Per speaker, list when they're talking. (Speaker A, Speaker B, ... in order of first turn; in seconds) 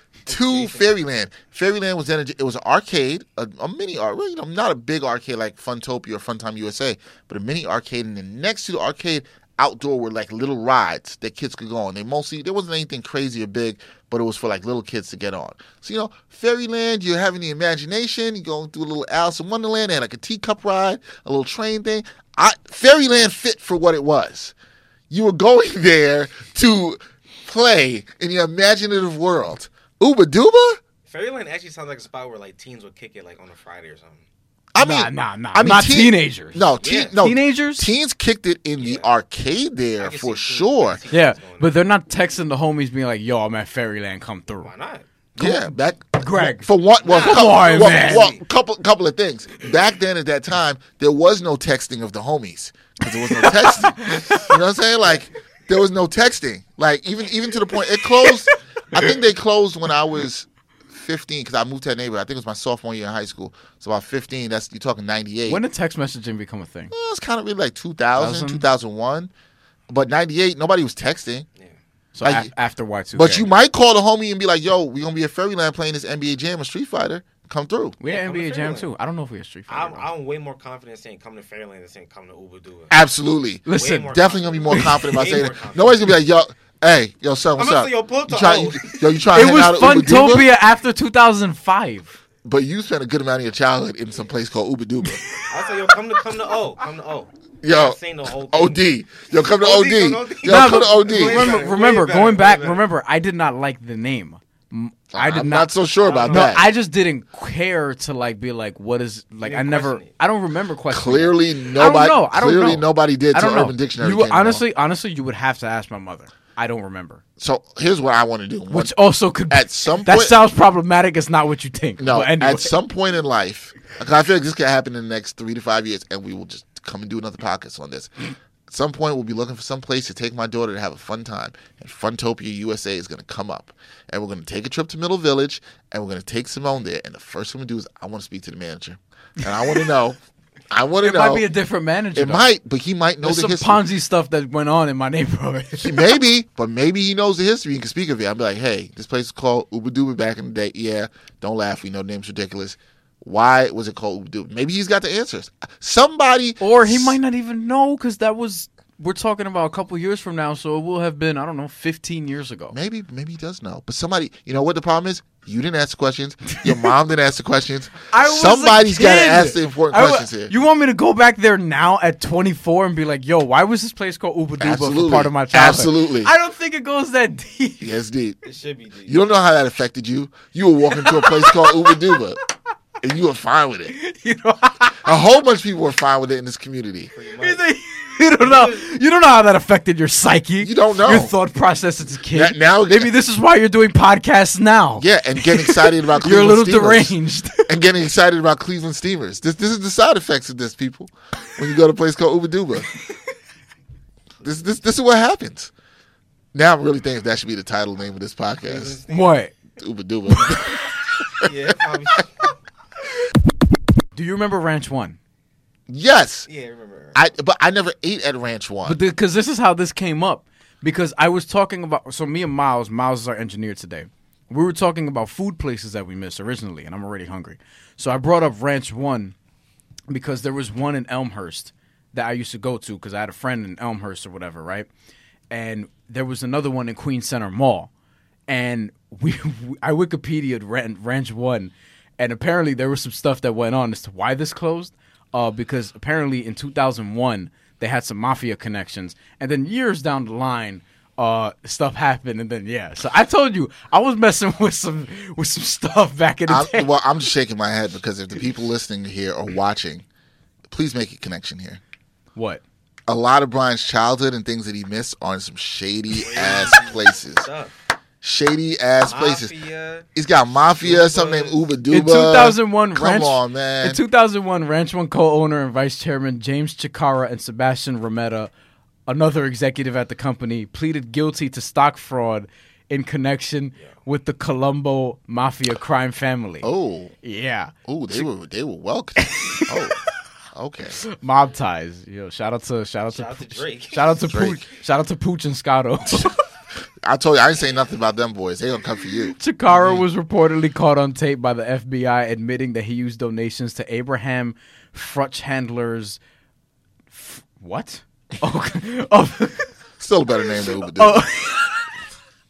Speaker A: 0.3-0.9, 31.1-34.2, 36.8-37.1, 38.8-39.1, 40.0-41.7, 44.6-45.1, 47.0-48.4, 78.0-78.9, 79.7-82.9, 83.7-86.1, 87.6-89.1, 95.5-102.8, 106.0-106.6, 109.4-110.1, 178.4-179.2, 187.1-187.6, 188.4-188.9, 208.6-209.4, 211.4-212.5, 216.4-217.2, 266.1-267.7, 269.0-270.1, 270.8-271.7, 293.1-294.3
Speaker B: 0.3-24.5, 25.1-30.8, 34.7-41.0, 45.4-65.6, 66.9-69.3, 69.9-71.5, 72.2-72.5, 73.1-78.0, 82.9-90.5, 92.4-95.2, 97.6-101.7, 105.1-106.6, 110.9-114.6, 117.4-118.9, 119.5-120.4, 122.0-140.2, 140.7-141.5, 142.1-143.8, 145.8-157.2, 162.7-170.5, 174.6-176.3, 177.8-178.4, 179.1-182.4, 183.0-183.9, 185.0-187.1, 190.6-191.3, 192.3-193.1, 195.0-197.1, 197.7-202.9, 204.4-205.7, 206.5-209.0, 209.8-210.9, 215.9-216.5, 217.1-219.0, 256.5-260.0, 260.7-261.8, 263.1-267.4, 268.2-269.5, 270.1-274.0, 286.6-287.1, 287.9-290.0, 290.5-291.0, 294.3-294.6, 296.1-296.3, 297.0-300.0, 310.0-311.3
Speaker C: 34.8-37.9, 41.1-44.7, 45.4-48.3, 53.3-54.5, 65.5-66.9, 68.1-68.6, 72.1-73.5, 78.0-80.0, 83.7-84.1, 84.7-85.2, 89.3-92.2, 95.0-95.5, 100.4-105.7, 106.3-117.2, 118.7-122.8, 141.0-142.5, 143.2-146.1, 156.6-162.8, 168.1-177.9, 181.0-182.1, 183.9-185.1, 187.4-197.7, 209.1-209.5, 214.1-215.2, 218.8-229.3, 230.1-234.9, 235.5-237.9, 238.5-256.9, 262.3-262.6, 271.9-278.5, 279.1-286.7, 287.2-288.2, 289.2-289.9, 291.0-296.4, 299.4-306.2, 307.1-309.7, 310.7-311.9